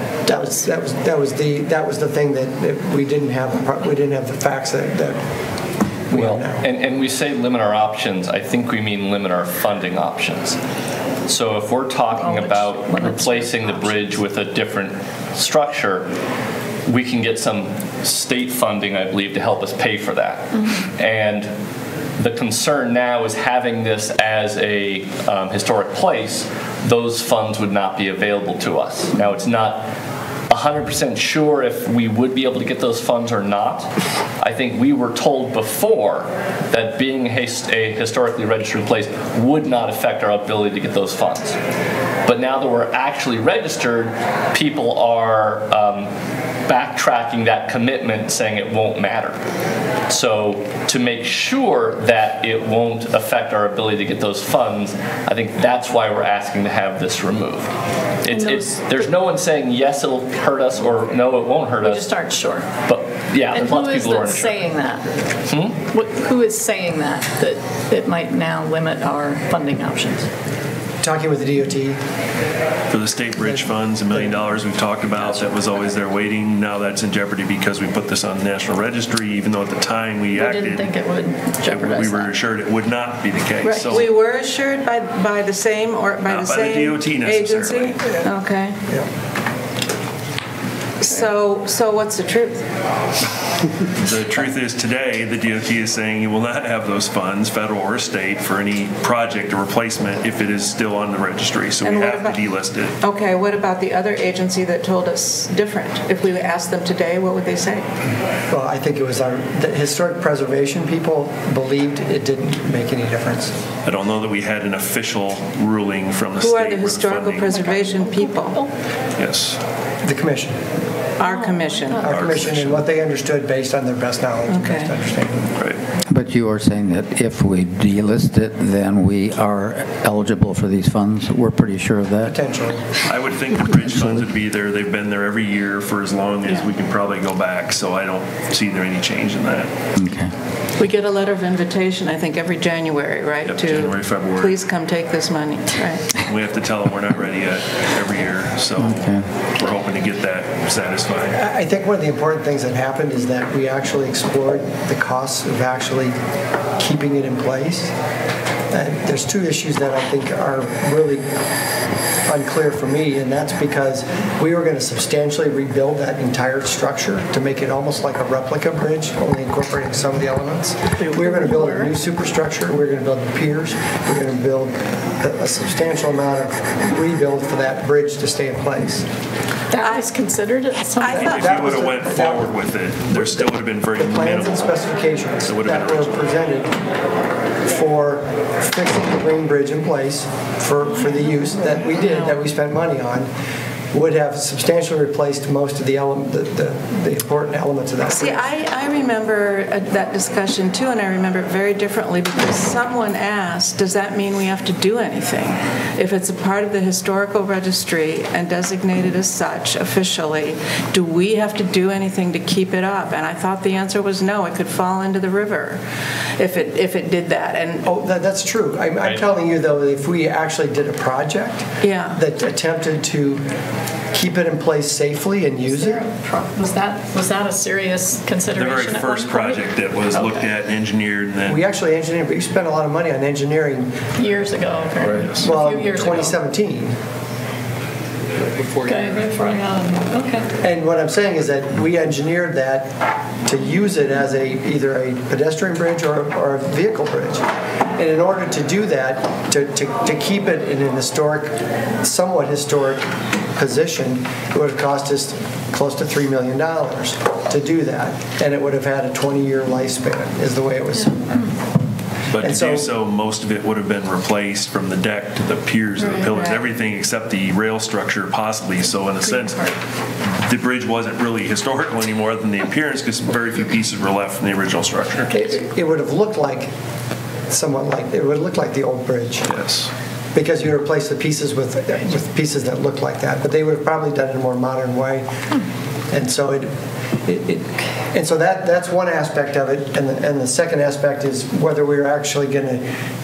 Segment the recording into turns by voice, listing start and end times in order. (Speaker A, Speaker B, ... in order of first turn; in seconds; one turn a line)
Speaker A: 0.3-0.6
Speaker B: 0.3-5.2
Speaker B: 6.1-6.6
Speaker C: 6.1-10.6
Speaker C: 11.3-16.1
Speaker A: 12.1-14.2
Speaker C: 16.9-21.5
Speaker C: 22.2-29.9
Speaker C: 30.5-41.6
Speaker C: 42.3-46.1
Speaker C: 46.7-49.4
Speaker C: 50.1-62.1
Speaker A: 58.3-58.9
Speaker A: 61.8-62.7
Speaker C: 62.9-64.7
Speaker A: 63.5-65.1
Speaker C: 65.5-65.8
Speaker A: 65.9-70.3
Speaker B: 71.0-72.0
Speaker D: 72.9-80.9
Speaker B: 73.4-74.5
Speaker A: 80.3-82.3
Speaker D: 81.6-84.0
Speaker A: 83.6-84.0
Speaker E: 83.8-88.8
Speaker D: 86.3-88.1
Speaker B: 88.0-88.3
Speaker E: 91.0-92.6
Speaker D: 94.0-102.9
Speaker E: 101.8-102.4
Speaker E: 103.0-107.9
Speaker B: 108.5-113.5
Speaker D: 113.8-117.7
Speaker E: 116.4-118.6
Speaker A: 117.5-118.7
Speaker D: 119.2-119.6
Speaker B: 120.0-120.6
Speaker E: 121.2-122.1
Speaker A: 121.2-122.2
Speaker B: 122.0-125.5
Speaker D: 122.0-122.8
Speaker E: 124.5-124.9
Speaker F: 126.1-132.4
Speaker B: 132.2-132.8
Speaker D: 133.1-139.7
Speaker F: 133.6-134.2
Speaker F: 140.0-140.3
Speaker E: 140.8-146.2
Speaker D: 143.4-144.6
Speaker D: 146.2-151.4
Speaker F: 148.8-149.2
Speaker B: 151.3-156.2
Speaker B: 156.8-157.9
Speaker B: 158.7-161.2
Speaker B: 162.3-179.1
Speaker A: 171.0-171.9
Speaker A: 179.7-181.5
Speaker E: 179.8-180.1
Speaker E: 181.0-181.5
Speaker B: 181.1-182.5
Speaker D: 181.2-184.7
Speaker B: 184.0-186.7
Speaker D: 185.4-186.1
Speaker B: 187.7-193.3
Speaker A: 192.0-192.4
Speaker B: 193.9-198.4
Speaker E: 198.1-215.8
Speaker E: 216.4-217.9
Speaker B: 217.8-223.4
Speaker E: 221.8-222.2
Speaker B: 224.1-226.0
Speaker A: 225.7-230.5
Speaker D: 228.5-231.6
Speaker B: 231.5-233.9
Speaker A: 234.2-236.4
Speaker D: 235.1-235.5
Speaker B: 235.4-237.0
Speaker A: 238.8-240.5
Speaker B: 240.6-242.9
Speaker B: 243.5-247.4
Speaker B: 248.0-253.0
Speaker B: 253.6-261.6
Speaker D: 262.3-269.7
Speaker B: 262.4-262.9
Speaker A: 269.2-269.8
Speaker D: 270.4-275.3
Speaker B: 275.3-276.7
Speaker B: 277.5-279.5
Speaker D: 279.4-279.9
Speaker B: 280.4-285.3
Speaker B: 286.1-286.7
Speaker B: 287.2-292.9